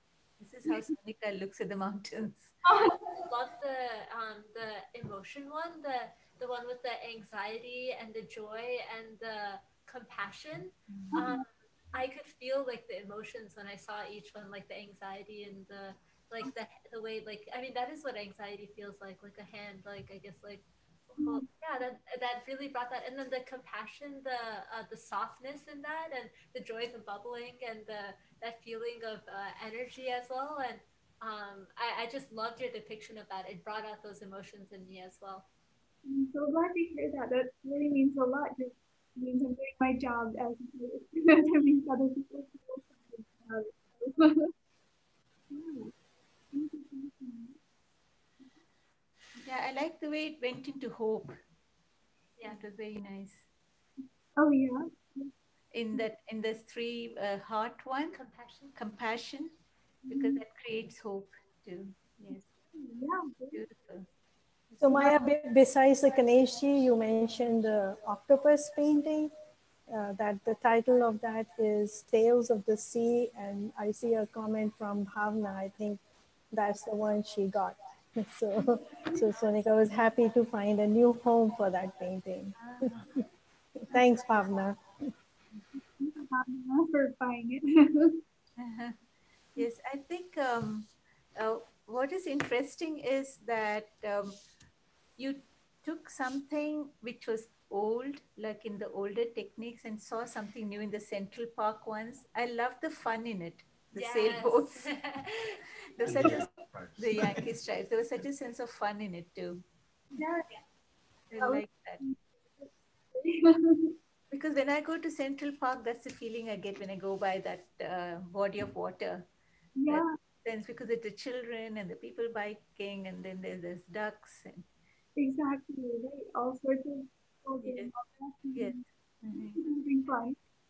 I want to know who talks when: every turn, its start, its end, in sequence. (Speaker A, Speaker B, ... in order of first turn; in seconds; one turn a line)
Speaker A: 0.4-2.6
Speaker B: 2.6-3.2
Speaker C: 3.2-35.5
Speaker B: 11.1-11.4
Speaker B: 21.2-21.4
Speaker B: 36.0-44.5
Speaker B: 45.5-45.9
Speaker B: 46.5-47.6
Speaker A: 49.4-51.4
Speaker A: 52.4-53.5
Speaker B: 54.4-55.3
Speaker A: 55.7-58.1
Speaker C: 58.1-58.8
Speaker A: 58.7-59.5
Speaker B: 60.0-60.4
Speaker A: 60.1-62.5
Speaker B: 62.8-63.6
Speaker A: 63.5-64.1
Speaker D: 64.8-69.3
Speaker D: 69.9-83.1
Speaker A: 82.8-83.1
Speaker D: 83.9-85.1
Speaker B: 86.0-88.2
Speaker A: 88.6-89.0
Speaker A: 89.5-94.3
Speaker A: 95.2-104.9
Speaker C: 104.0-106.4
Speaker A: 106.0-109.6
Speaker B: 110.2-110.5
Speaker A: 111.3-112.0
Speaker B: 111.4-113.9
Speaker A: 114.3-119.3
Speaker B: 119.8-120.1
Speaker A: 119.9-124.7
Speaker B: 125.2-128.8
Speaker A: 127.6-127.9
Speaker A: 128.5-129.6
Speaker B: 129.5-130.4